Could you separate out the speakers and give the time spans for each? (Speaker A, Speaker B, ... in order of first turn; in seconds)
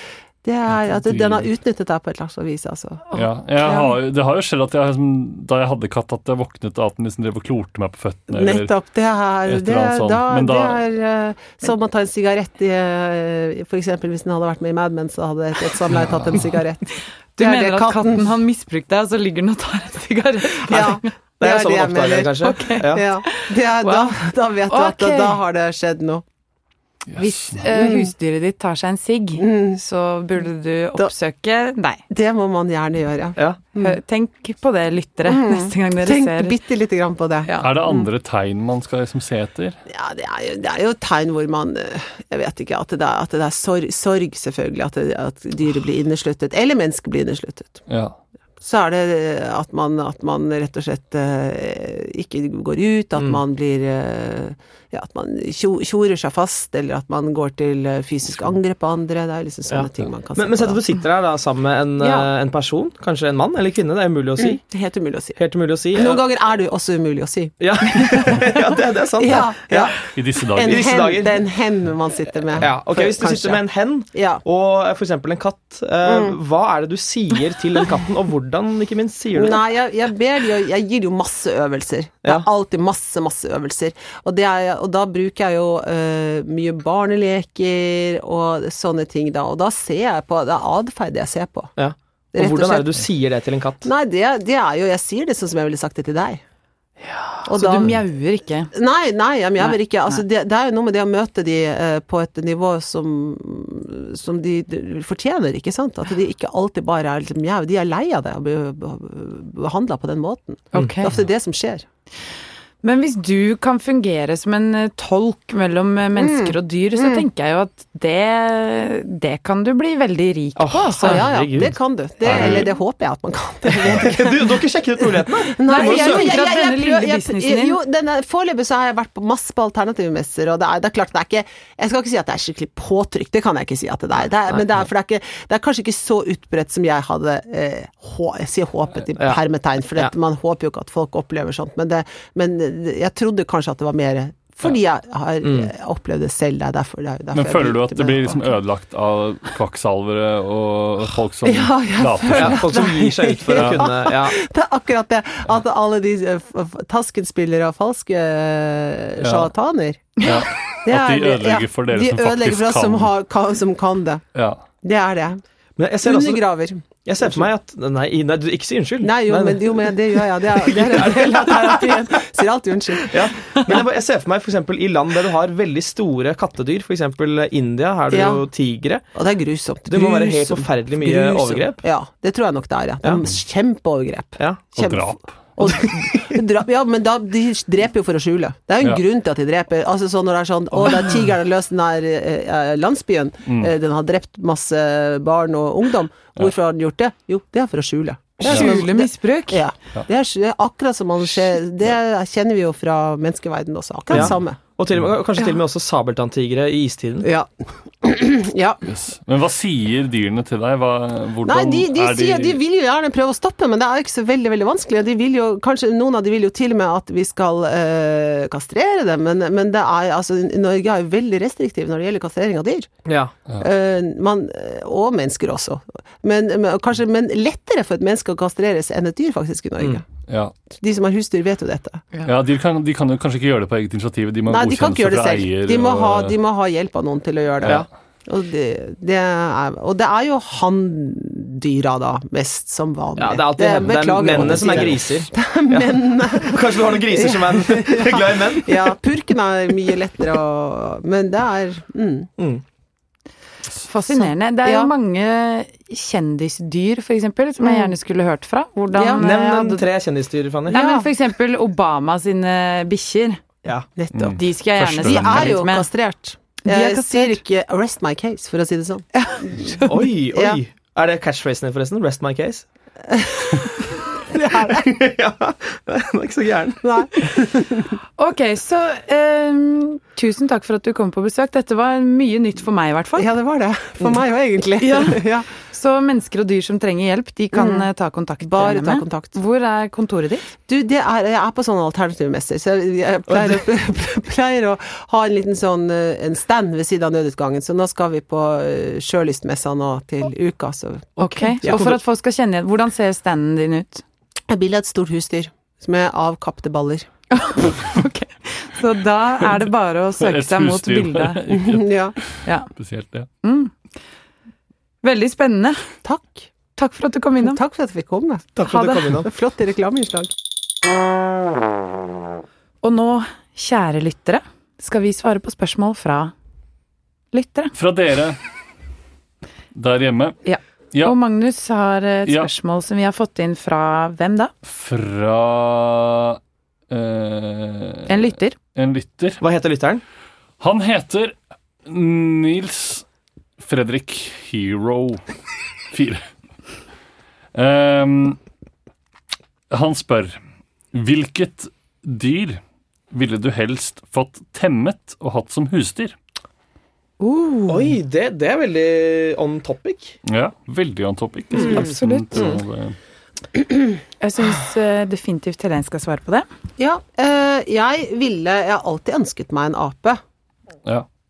Speaker A: 0.4-3.9, 8.3-18.3, 20.6-26.2, 27.7-28.1, 29.4-29.8, 32.1-34.0, 35.2-37.5, 39.9-47.8, 48.6-60.8, 62.0-62.3, 64.4-65.4, 65.9-68.5, 69.2-70.0, 70.5-74.4, 76.0-76.4, 79.3-91.7, 92.3-93.0, 93.8-96.4, 97.4-98.0, 98.7-111.8, 116.2-117.2, 120.9-148.4, 151.4-164.2, 164.8-165.4, 166.0-167.5, 169.0-173.8, 178.1-178.4, 179.1-204.6, 207.2-207.5, 208.0-208.8, 211.4-222.9, 223.6-230.0, 230.7-232.1, 234.5-252.3, 254.1-254.9, 257.6-257.9, 258.9-259.3, 260.7-261.1, 264.0-264.4, 264.9-270.6, 273.1-275.0, 276.8-278.0, 283.1-285.5, 287.5-287.9, 288.4-289.4, 290.6-301.9, 304.5-307.1, 311.5-312.1, 316.0-316.5, 317.4-320.3, 366.8-370.2
Speaker B: 0.7-1.5, 3.1-8.7, 9.4-10.8, 27.1-27.6, 37.6-39.8, 47.9-48.2, 70.1-71.0, 122.2-122.7, 147.3-152.7, 153.5-153.8, 159.2-159.5, 160.2-163.1, 164.3-164.6, 184.7-185.3, 193.5-193.7, 208.8-212.6, 230.3-230.5, 232.2-236.3, 244.3-244.9, 264.1-265.6, 310.2-313.3, 327.7-328.4, 329.7-330.4, 334.6-336.4, 336.9-339.4, 340.6-343.0, 343.6-345.2, 345.9-346.2, 347.5-348.4, 349.7-350.4, 350.9-356.1, 360.2-362.9
Speaker C: 17.4-21.1, 22.4-24.2, 24.7-25.4, 27.2-32.0, 33.8-36.5, 37.4-37.7, 97.5-98.7, 99.6-100.2, 110.7-111.2, 112.8-121.3, 125.7-127.8, 198.4-199.6, 253.8-259.9, 260.7-263.4, 264.3-265.9, 266.6-267.4, 269.1-270.0, 278.2-283.3, 284.8-290.5, 301.2-304.0, 307.3-311.4, 312.4-312.7, 313.4-313.7, 315.0-315.9, 316.8-317.6, 322.8-326.3, 327.3-327.7, 330.4-334.5, 338.1-338.6, 357.2-357.9, 361.6-362.5, 364.2-366.5
Speaker D: 20.7-23.0, 59.7-64.6, 65.4-66.2, 67.6-71.4, 72.5-79.6, 91.8-93.9, 97.0-97.4, 120.6-122.7, 123.7-126.4, 145.4-145.7, 152.3-154.4, 165.8-166.4, 167.0-172.0, 173.0-179.0, 179.9-181.8, 184.4-184.6, 185.7-186.3, 190.8-191.0, 204.1-207.3, 223.1-223.3, 243.2-248.9, 259.2-260.8, 269.8-272.6, 274.5-276.9, 293.3-293.6, 301.6-302.0, 318.6-319.3, 339.4-340.0, 357.7-360.1, 361.5-361.8, 362.3-362.6